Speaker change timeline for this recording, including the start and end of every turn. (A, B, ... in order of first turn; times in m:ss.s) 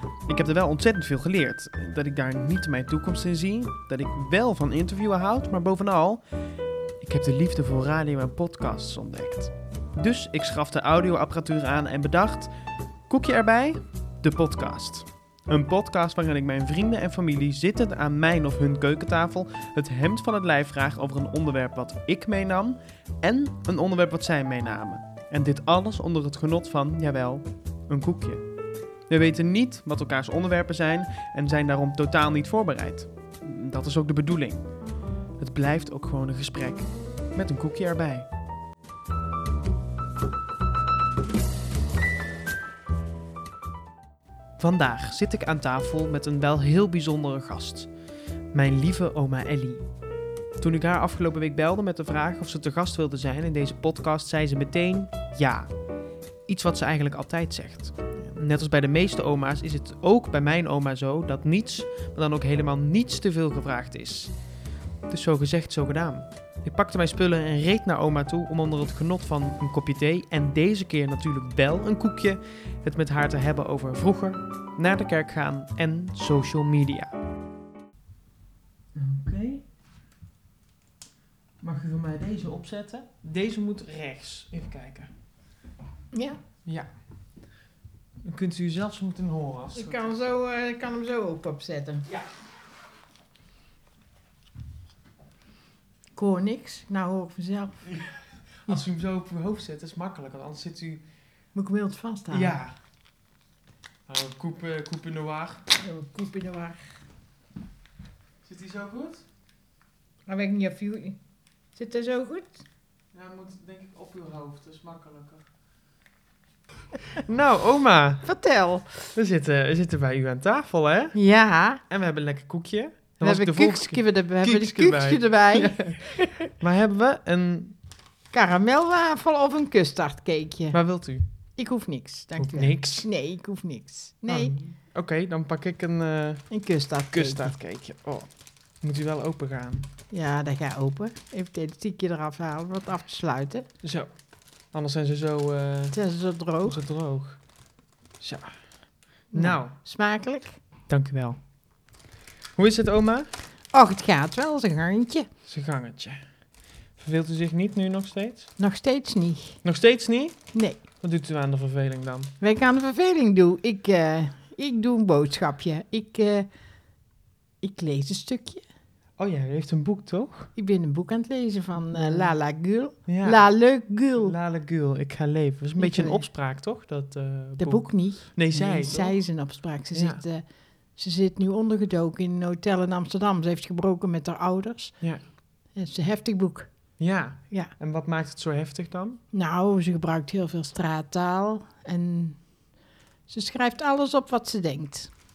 0:00.3-0:06.2 A
0:07.0-0:12.5 A
0:13.1-0:28.4 A
0:29.1-0:34.6 A
0:35.4-0:38.3 A
0:44.6-0:47.9 A
0:48.5-0:49.9 A
0:50.6-0:55.7 A
0:56.5-1:04.3 A
1:05.1-1:17.1 A
1:18.9-1:19.6 A
1:21.6-1:25.1 A
1:26.1-1:26.4 B
1:28.2-1:30.1 A
1:29.7-1:32.1 B
1:36.2-1:38.0 B
1:37.9-1:41.0 A
1:41.6-1:42.6 B
1:42.3-1:42.8 A
1:44.1-1:45.6 A
1:45.7-1:47.0 B
1:48.4-1:49.3 A
1:50.3-1:51.2 B
1:51.8-1:52.6 B
1:53.1-1:55.4 A
1:57.0-1:58.3 A
1:58.2-1:59.1 B
1:59.2-2:01.2 A
2:01.2-2:01.8 B
2:01.9-2:07.8 A
2:03.2-2:06.5 B
2:08.3-2:10.8 B
2:10.7-2:11.3 A
2:11.6-2:14.6 B
2:12.4-2:13.1 A
2:14.3-2:16.5 A
2:16.5-2:17.5 B
2:17.1-2:18.3 A
2:18.8-2:19.9 A
2:20.1-2:23.7 B
2:23.8-2:24.1 A
2:24.7-2:26.0 A
2:25.9-2:26.8 B
2:26.6-2:27.4 A
2:28.2-2:28.5 A
2:29.3-2:29.7 A
2:29.3-2:30.6 B
2:30.9-2:31.4 A
2:32.6-2:33.3 A
2:33.7-2:35.3 B
2:35.5-2:36.2 A
2:37.0-2:38.5 A
2:38.6-2:39.6 B
2:39.6-2:40.5 A
2:40.5-2:40.8 B
2:41.0-2:42.3 A
2:42.4-2:46.5 B
2:47.6-2:48.6 B
2:49.2-2:50.5 A
2:50.6-2:54.4 B
2:51.9-2:52.3 A
2:53.1-2:53.5 A
2:54.2-2:59.2 A
2:55.8-2:56.2 B
2:57.6-3:00.4 B
2:59.9-3:00.2 A
3:01.0-3:05.0 B
3:05.8-3:06.7 B
3:07.0-3:09.2 A
3:09.3-3:12.4 B
3:13.3-3:15.1 B